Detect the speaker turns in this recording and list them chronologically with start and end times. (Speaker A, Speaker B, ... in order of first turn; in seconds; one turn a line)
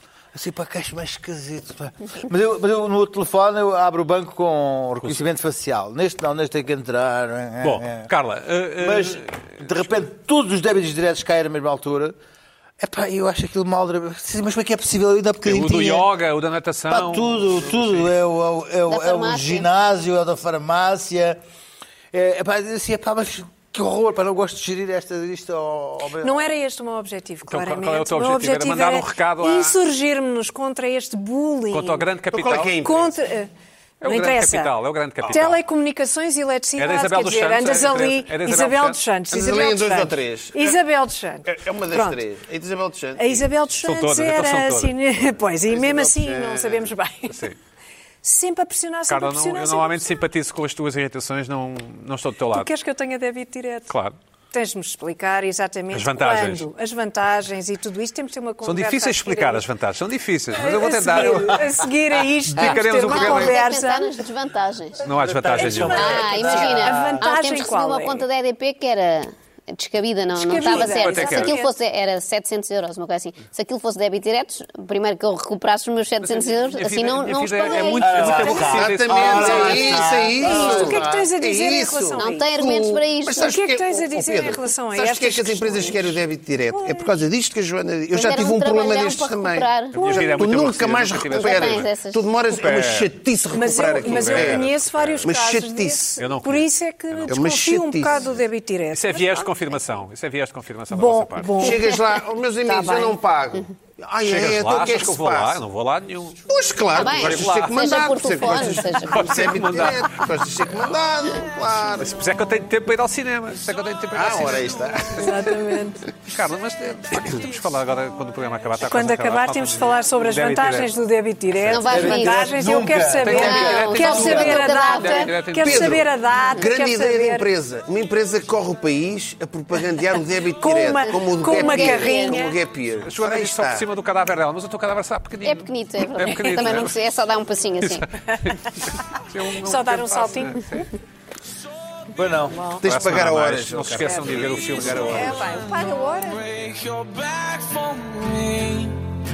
Speaker A: 0.3-8.1
Speaker B: 7.6-9.6
Speaker A: 8.8-12.1
Speaker A: 12.8-16.1
Speaker B: 15.4-18.0
Speaker A: 16.9-21.4
Speaker C: 18.9-19.7
Speaker A: 22.1-26.4
Speaker D: 26.2-32.1
Speaker B: 27.5-29.8
Speaker B: 31.7-32.7
Speaker E: 32.3-33.1
Speaker D: 32.8-33.5
Speaker B: 34.0-35.6
Speaker D: 34.0-42.2
Speaker B: 36.8-39.0
Speaker E: 39.3-40.8
Speaker E: 41.5-43.5
Speaker D: 43.2-47.5
Speaker B: 43.8-44.9
Speaker E: 45.7-46.9
Speaker B: 47.3-47.5
Speaker D: 48.2-50.2
Speaker B: 49.1-52.7
Speaker D: 52.5-53.9
Speaker B: 53.9-54.1
Speaker D: 54.5-59.6
Speaker B: 55.9-56.6
Speaker B: 58.6-63.5
Speaker D: 60.5-64.2
Speaker A: 60.7-61.8
Speaker C: 63.0-65.0
Speaker B: 65.0-66.1
Speaker A: 65.1-67.3
Speaker D: 65.6-68.2
Speaker C: 65.8-78.4
Speaker D: 70.3-71.7
Speaker B: 70.7-71.5
Speaker B: 76.2-79.8
Speaker A: 77.9-81.3
Speaker E: 78.4-94.7
Speaker D: 79.6-82.5
Speaker C: 82.2-83.4
Speaker D: 83.3-87.2
Speaker C: 88.1-90.3
Speaker B: 89.9-91.9
Speaker C: 91.3-92.3
Speaker B: 92.5-93.1
Speaker D: 93.5-99.5
Speaker B: 93.7-95.3
Speaker E: 95.2-96.2
Speaker B: 96.2-97.3
Speaker E: 97.3-98.4
Speaker B: 98.9-101.7
Speaker D: 100.9-103.2
Speaker E: 101.6-105.6
Speaker B: 104.2-110.2
Speaker E: 106.5-112.2
Speaker C: 107.0-109.3
Speaker B: 112.0-115.5
Speaker E: 114.1-115.4
Speaker D: 115.1-116.0
Speaker B: 116.2-120.9
Speaker D: 118.8-127.5
Speaker B: 121.5-121.8
Speaker C: 121.7-122.5
Speaker A: 121.8-124.6
Speaker B: 123.2-126.1
Speaker C: 123.3-125.4
Speaker E: 125.6-133.9
Speaker D: 130.6-132.6
Speaker C: 131.5-132.5
Speaker B: 133.0-136.9
Speaker C: 135.4-138.1
Speaker B: 137.8-140.9
Speaker D: 139.6-140.6
Speaker A: 142.1-142.6
Speaker D: 142.6-142.8
Speaker E: 142.8-145.5
Speaker B: 142.8-145.4
Speaker D: 144.0-146.4
Speaker F: 145.5-149.0